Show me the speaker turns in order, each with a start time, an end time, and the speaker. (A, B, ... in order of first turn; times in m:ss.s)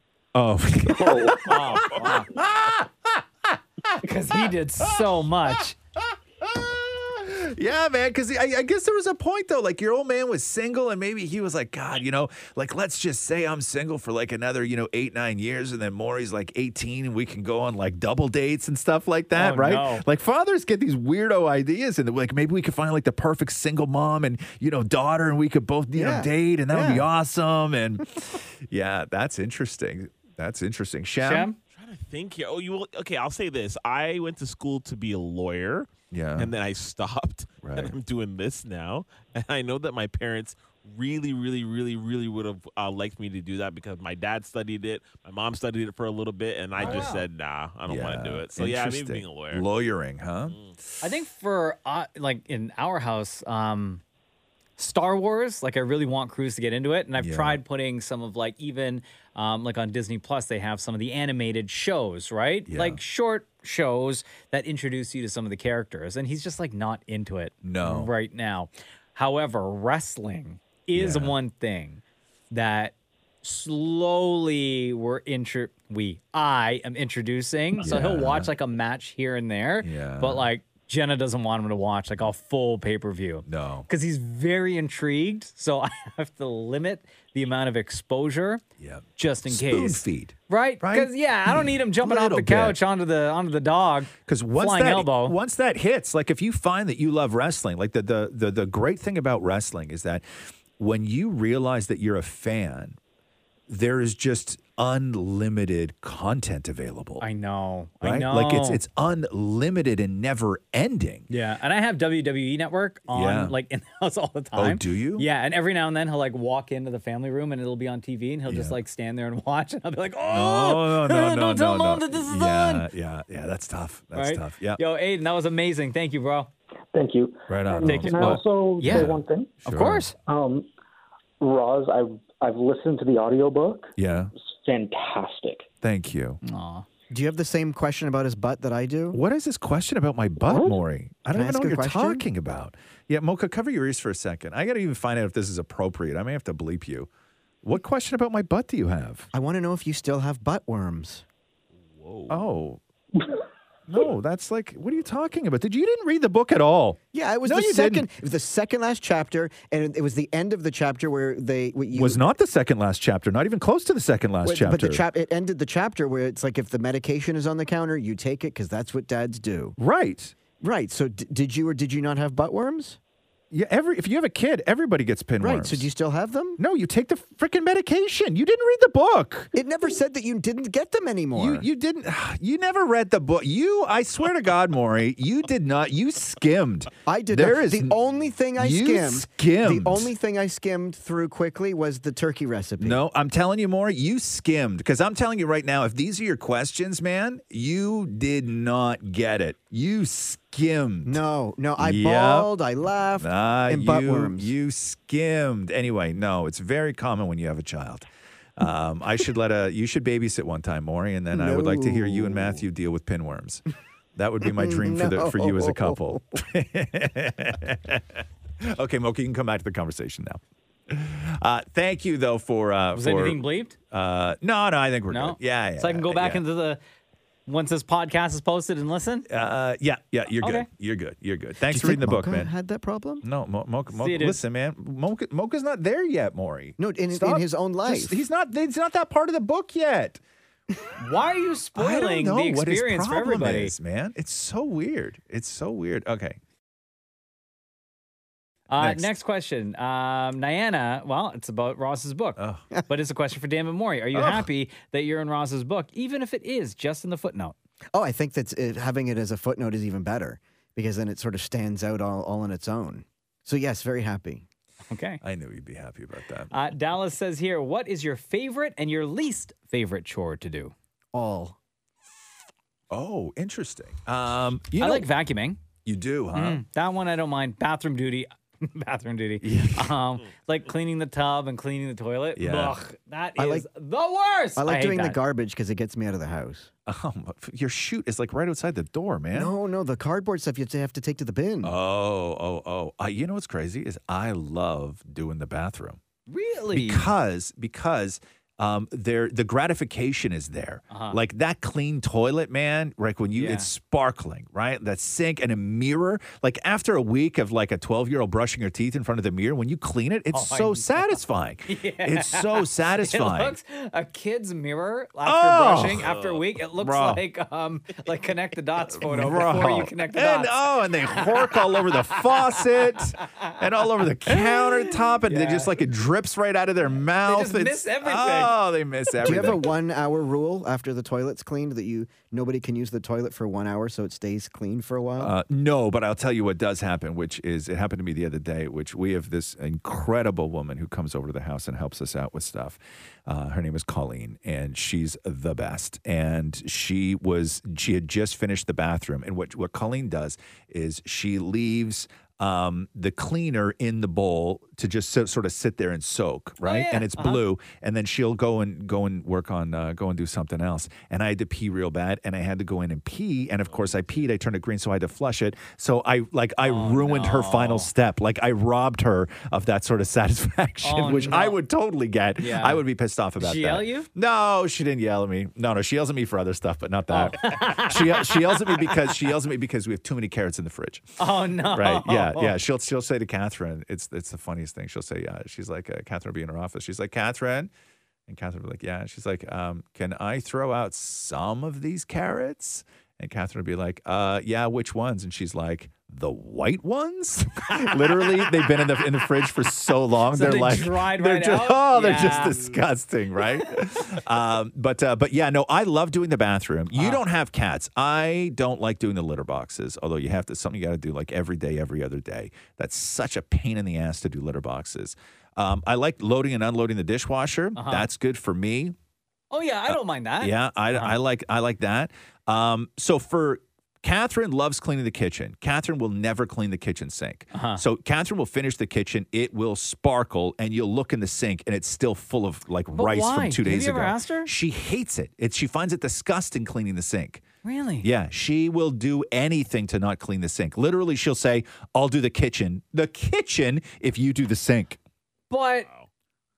0:00.3-0:31.5 A
0:00.9-0:01.4 B
0:01.2-0:02.3 C
0:04.0-0:05.7 C
0:19.3-0:20.0 C
0:25.9-0:27.0 D
0:31.2-0:31.6 C
0:31.7-0:49.7 E
0:36.1-0:36.5 A
0:37.6-0:38.0 A
0:46.8-0:47.1 A
0:46.8-0:47.2 C
0:47.8-0:50.6 A
0:51.0-0:54.0 C
0:54.8-1:28.6 C
0:57.2-0:57.6 A
1:02.7-1:03.0 A
1:07.6-1:08.1 A
1:10.9-1:11.4 A
1:17.8-1:18.5 A
1:19.8-1:20.5 A
1:23.4-1:23.9 A
1:28.8-1:32.8 A
1:29.2-1:35.4 C
1:34.2-1:40.2 A
1:40.8-1:43.0 A
1:43.7-1:47.2 A
1:47.2-1:48.8 C
1:48.0-1:51.3 A
1:51.3-2:02.9 C
1:53.1-1:53.6 A
1:54.5-1:55.2 A
1:58.4-1:58.8 A
2:00.3-2:04.8 A
2:04.1-2:06.5 C
2:06.9-2:09.6 B
2:07.5-2:10.1 A
2:07.8-2:09.1 C
2:09.6-2:10.1 C
2:10.2-2:10.6 B
2:11.4-2:15.6 B
2:14.0-2:14.3 A
2:15.8-2:16.4 A
2:16.4-2:16.8 C
2:17.1-2:19.2 D
2:19.1-2:27.1 A
2:21.3-2:22.2 D
2:27.6-2:29.3 A
2:29.3-2:31.2 D
2:31.8-2:32.5 E
2:32.3-2:32.8 A
2:33.9-2:38.1 A
2:37.1-2:42.2 D
2:41.9-2:45.0 A
2:44.4-2:49.8 D
2:49.8-2:50.3 A
2:50.6-2:53.0 D
2:53.5-2:55.9 A
2:55.4-2:56.6 D
2:56.6-2:59.5 A
2:59.5-3:01.6 D
3:01.3-3:08.0 A
3:07.0-3:13.0 D
3:08.6-3:10.1 A
3:12.8-3:21.2 A
3:21.0-3:24.5 D
3:21.8-3:22.5 A
3:23.2-3:33.6 A
3:31.3-3:32.6 D
3:34.2-3:46.4 A
3:34.4-3:36.2 D
3:42.9-3:43.7 C
3:45.1-3:46.8 C
3:47.5-3:49.3 C
3:49.3-3:52.5 A
3:50.4-3:50.7 C
3:51.7-3:53.2 D
3:53.2-4:00.2 A
3:53.9-3:54.4 C
3:56.8-3:58.2 D
4:01.0-4:03.7 C
4:01.7-4:06.4 A
4:08.7-4:17.5 C
4:08.8-4:09.1 A
4:12.4-4:12.6 A
4:14.1-4:14.4 A
4:17.9-4:24.4 D
4:24.9-4:25.2 C
4:25.2-4:26.5 A
4:26.5-4:30.7 C
4:31.1-4:31.6 D
4:32.9-4:35.1 A
4:34.8-4:35.6 C
4:35.8-4:36.6 A
4:36.3-4:45.2 C
4:39.4-4:39.9 A
4:42.4-4:42.8 A
4:43.4-4:43.7 D
4:44.6-4:46.7 D
4:46.8-4:49.5 A
4:49.3-4:51.7 D
4:51.6-4:56.0 A
4:56.3-4:57.1 C
4:56.7-5:13.6 A
5:00.9-5:01.2 C
5:03.3-5:03.7 C
5:10.3-5:11.1 C
5:11.7-5:23.6 C
5:15.2-5:16.1 A
5:16.0-5:16.5 E
5:16.8-5:17.2 A
5:18.9-5:29.7 A
5:24.2-5:25.7 C
5:27.1-5:28.6 C
5:29.2-5:35.3 D
5:35.2-6:27.7 A
5:56.6-5:57.4 C
6:03.7-6:04.2 E
6:06.6-6:07.9 C
6:10.8-6:11.6 C
6:12.4-6:12.8 C
6:13.4-6:14.1 C
6:17.1-6:19.1 C
6:21.2-6:22.6 C
6:28.3-6:58.9 A
6:37.7-6:38.8 C
6:40.3-6:42.8 C
6:46.9-6:47.2 C
6:57.7-6:58.1 C
6:59.5-7:01.2 C
6:59.9-7:17.4 A
7:07.5-7:07.8 C
7:12.9-7:14.5 C
7:17.6-7:18.1 C
7:18.0-7:25.0 A
7:25.5-7:25.9 C